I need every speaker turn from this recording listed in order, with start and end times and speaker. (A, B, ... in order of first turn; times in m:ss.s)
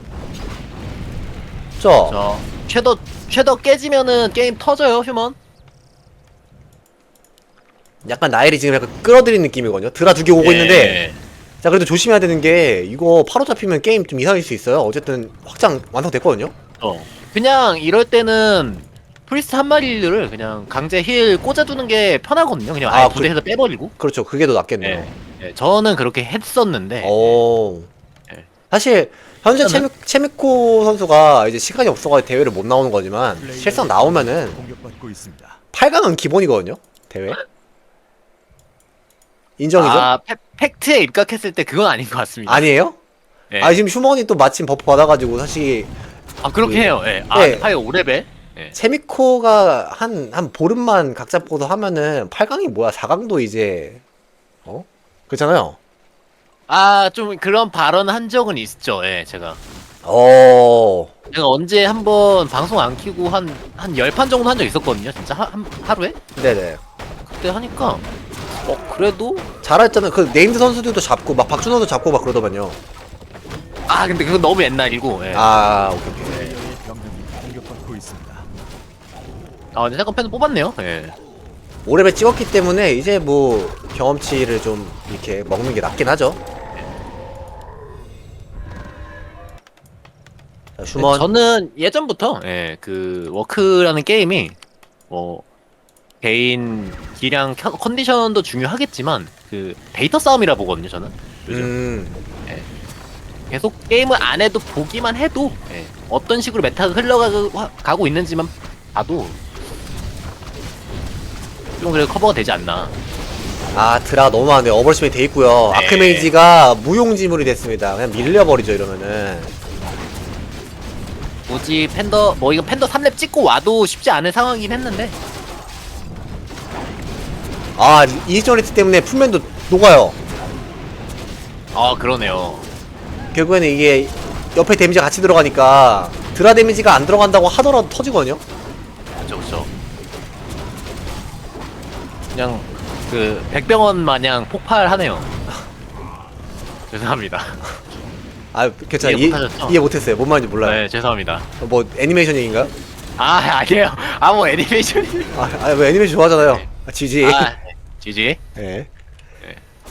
0:01.8-0:02.2 A
0:02.1-0:05.4 B
0:08.0-0:11.0 A
0:10.4-0:11.2 B
0:11.6-0:16.5 A
0:16.8-0:23.9 B
0:22.9-0:23.4 A
0:24.0-0:25.1 A
0:24.8-0:27.4 B
0:27.0-0:27.9 A
0:28.7-0:34.6 A
0:29.6-0:29.9 B
0:33.4-0:35.6 C
0:35.7-0:37.4 A
0:39.6-0:40.1 A
0:39.8-0:42.7 B
0:42.5-0:43.0 A
0:43.5-0:43.8 B
0:43.6-0:45.9 A
0:46.4-0:48.8 B
0:46.6-0:47.7 A
0:48.7-0:54.0 A
0:54.7-0:55.8 A
0:56.7-0:59.6 B
1:00.0-1:01.1 A
1:01.3-1:06.2 B
1:06.4-1:06.8 A
1:07.3-1:08.0 B
1:08.6-1:09.4 B
1:09.6-1:12.8 A
1:13.9-1:15.5 B
1:15.3-1:16.5 A
1:16.0-1:18.5 C
1:16.2-1:16.5 B
1:19.7-1:21.2 B
1:21.8-1:26.4 A
1:30.8-1:31.3 A
1:31.0-1:34.6 B
1:35.1-1:35.4 B
1:36.2-1:41.7 B
1:41.5-1:42.2 A
1:43.5-1:49.4 B
1:51.8-1:52.9 B
1:53.7-1:59.5 A
1:55.7-1:56.3 B
2:01.5-2:05.2 B
2:07.8-2:10.2 A
2:11.7-2:12.7 B
2:13.3-2:18.4 A
2:19.2-2:19.7 B
2:22.3-2:25.3 B
2:26.9-2:27.7 B
2:28.5-2:30.8 A
2:29.0-2:29.8 B
2:30.6-2:31.5 B
2:31.6-2:32.7 A
2:33.2-2:35.4 B
2:35.3-2:37.5 A
2:36.4-2:36.7 B
2:37.2-2:38.4 B
2:38.6-2:38.9 A